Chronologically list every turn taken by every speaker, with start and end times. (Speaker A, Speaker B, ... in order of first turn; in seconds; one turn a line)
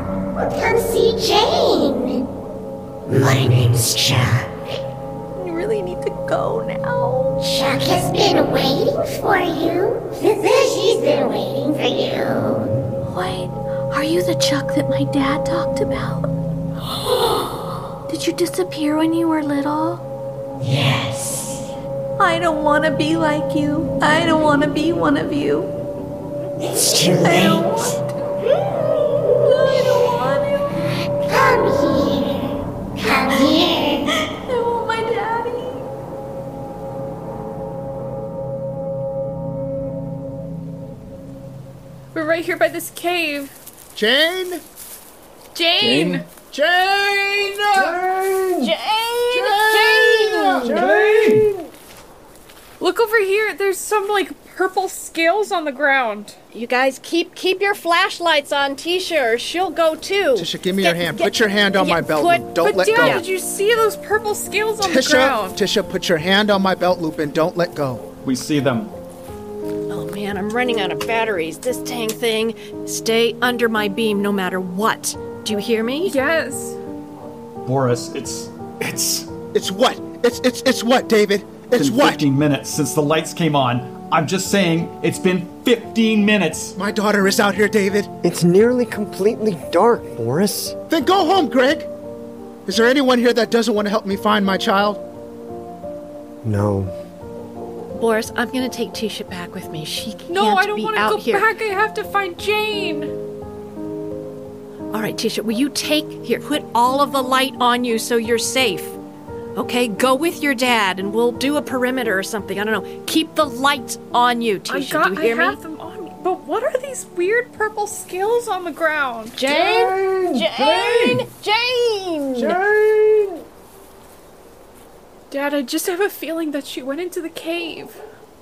Speaker A: 0.5-2.2
Speaker A: 3.1-4.5
Speaker B: 5.3-7.4
Speaker A: 7.4-12.6
Speaker B: 13.1-16.3
Speaker B: 18.1-20.0
Speaker A: 20.7-21.3
Speaker B: 22.2-25.7
Speaker A: 26.7-27.3
Speaker B: 27.2-30.9
Speaker A: 31.3-32.2
Speaker A: 33.1-34.0
Speaker B: 34.5-35.9
Speaker C: 42.1-43.5
Speaker D: 44.0-44.6
Speaker C: 45.5-46.3
Speaker E: 45.8-46.2
Speaker D: 46.5-48.0
Speaker E: 47.7-48.7
Speaker F: 48.6-50.3
Speaker D: 49.3-50.8
Speaker C: 50.3-51.7
Speaker E: 50.7-51.5
Speaker C: 52.8-56.4
Speaker F: 56.5-63.2
Speaker D: 60.4-63.2
Speaker C: 62.6-65.6
Speaker D: 64.8-68.0
Speaker E: 68.2-68.9
Speaker F: 69.9-76.2
Speaker C: 76.0-76.8
Speaker E: 77.6-79.3
Speaker D: 79.5-82.2
Speaker E: 81.7-86.8
Speaker D: 86.8-88.1
Speaker G: 88.2-90.8
Speaker D: 90.9-91.9
Speaker D: 92.7-95.0
Speaker G: 96.4-96.9
Speaker F: 98.0-101.5
Speaker C: 100.3-103.1
Speaker F: 104.9-109.0
Speaker F: 109.6-115.6
Speaker C: 114.7-119.4
Speaker F: 119.4-122.6
Speaker E: 119.5-121.3
Speaker E: 122.4-123.4
Speaker C: 125.3-128.0